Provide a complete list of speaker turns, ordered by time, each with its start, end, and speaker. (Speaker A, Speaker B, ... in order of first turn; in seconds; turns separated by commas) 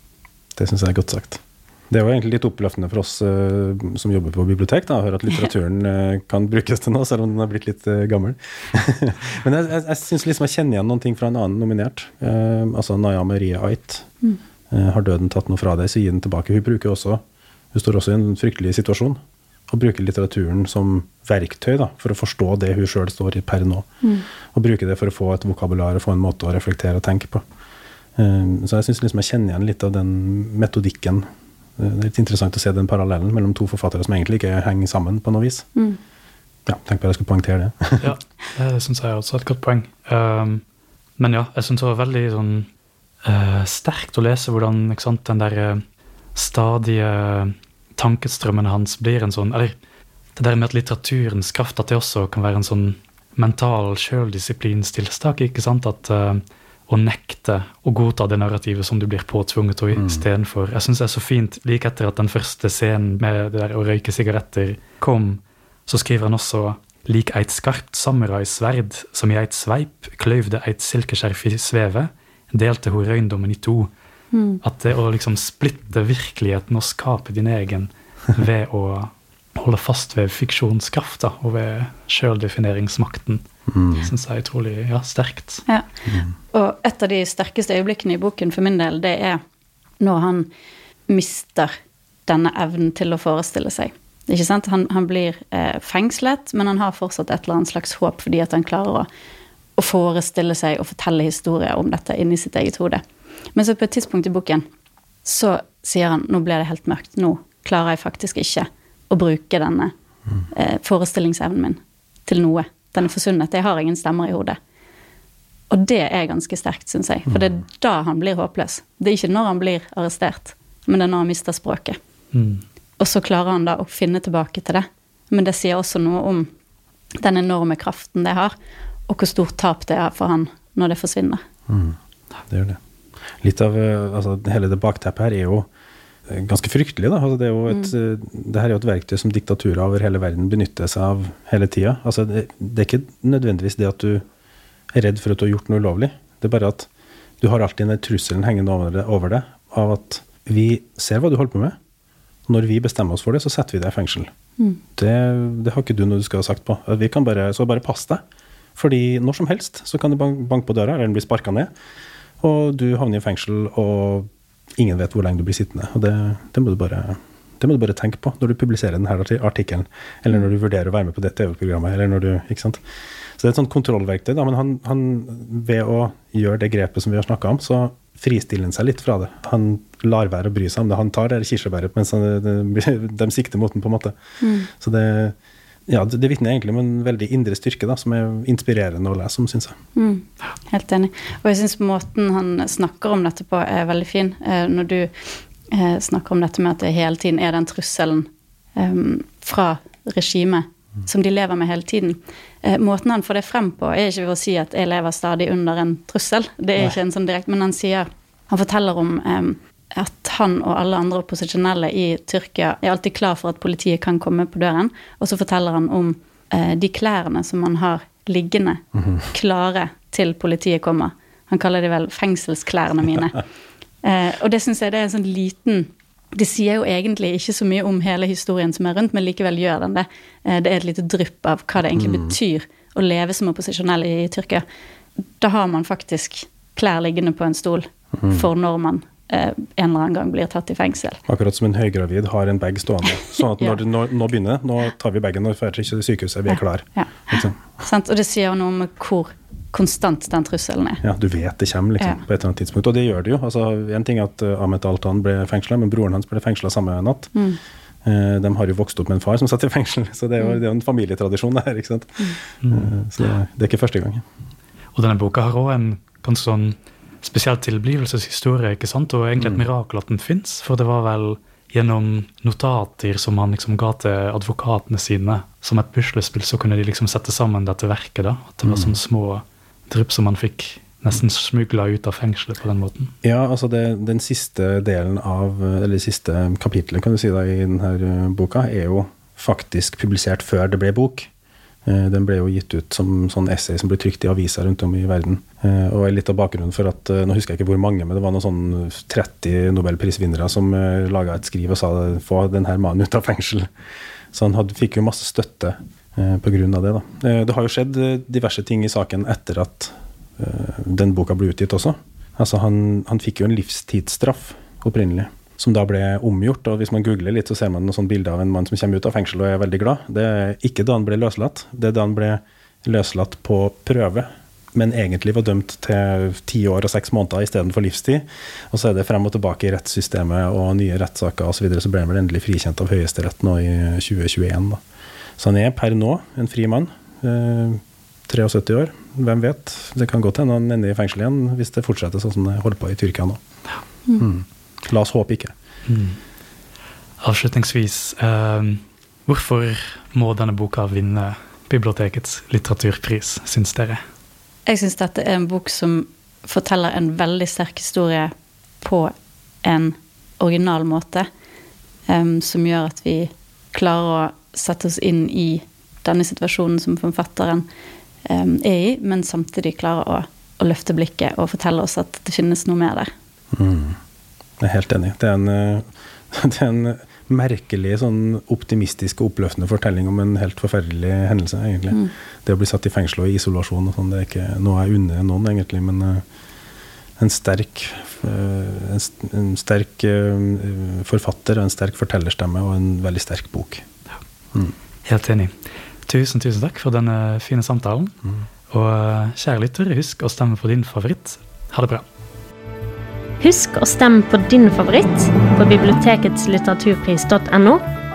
Speaker A: 0.6-14.1, Speaker A: 14.7-17.2, Speaker A: 17.7-19.2, Speaker A: 19.7-23.9, Speaker A: 24.5-27.4, Speaker A: 28.1-31.3, Speaker A: 31.8-35.7, Speaker A: 36.6-38.1, Speaker B: 38.0-40.6, Speaker B: 41.2-42.7, Speaker B: 43.2-45.8, Speaker B: 46.3-49.7, Speaker B: 50.4-73.9, Speaker A: 60.0-60.2, Speaker C: 74.3-74.6, Speaker B: 74.6-83.4, Speaker A: 83.7-84.1, Speaker B: 84.0-85.6, Speaker C: 86.5-89.4, Speaker C: 90.0-90.5, Speaker C: 91.1-91.7, Speaker C: 92.2-99.1, Speaker C: 99.8-103.0, Speaker C: 103.5-104.6, Speaker C: 105.2-109.9, Speaker C: 110.5-114.6, Speaker C: 115.7-122.0, Speaker B: 122.3-122.6, Speaker C: 123.0-126.5, Speaker C: 127.2-128.5, Speaker C: 129.1-131.4, Speaker A: 131.7-132.0, Speaker A: 132.5-132.8, Speaker A: 133.4-135.7, Speaker A: 136.3-144.2, Speaker A: 144.9-146.9, Speaker A: 147.4-151.7, Speaker A: 152.5-154.3, Speaker A: 154.9-158.2, Speaker A: 158.8-161.7, Speaker A: 162.4-164.3, Speaker A: 164.8-172.8, Speaker A: 173.4-184.1, Speaker C: 184.4-184.7, Speaker A: 184.7-185.3, Speaker A: 185.9-189.8, Speaker C: 189.9-195.1, Speaker C: 195.7-223.4, Speaker C: 224.0-234.6, Speaker A: 231.9-232.3, Speaker C: 235.4-241.2, Speaker A: 238.2-238.5, Speaker A: 241.3-247.6, Speaker C: 246.5-251.0, Speaker A: 251.0-257.3, Speaker C: 257.3-257.6, Speaker A: 258.0-264.2, Speaker B: 262.6-262.9, Speaker B: 264.9-283.1, Speaker A: 278.6-278.9, Speaker A: 283.2-291.3, Speaker A: 291.9-303.7, Speaker A: 304.3-334.8, Speaker A: 335.4-343.4, Speaker A: 344.2-345.5, Speaker B: 345.9-346.2, Speaker B: 347.2-354.0, Speaker C: 354.6-358.3, Speaker C: 358.8-359.1, Speaker C: 359.6-361.3, Speaker C: 362.1-367.6, Speaker C: 368.2-373.1, Speaker A: 373.5-374.0, Speaker A: 374.6-386.2, Speaker A: 387.2-393.8, Speaker B: 395.0-395.5, Speaker B: 396.1-398.2, Speaker B: 398.7-402.0, Speaker D: 403.4-407.9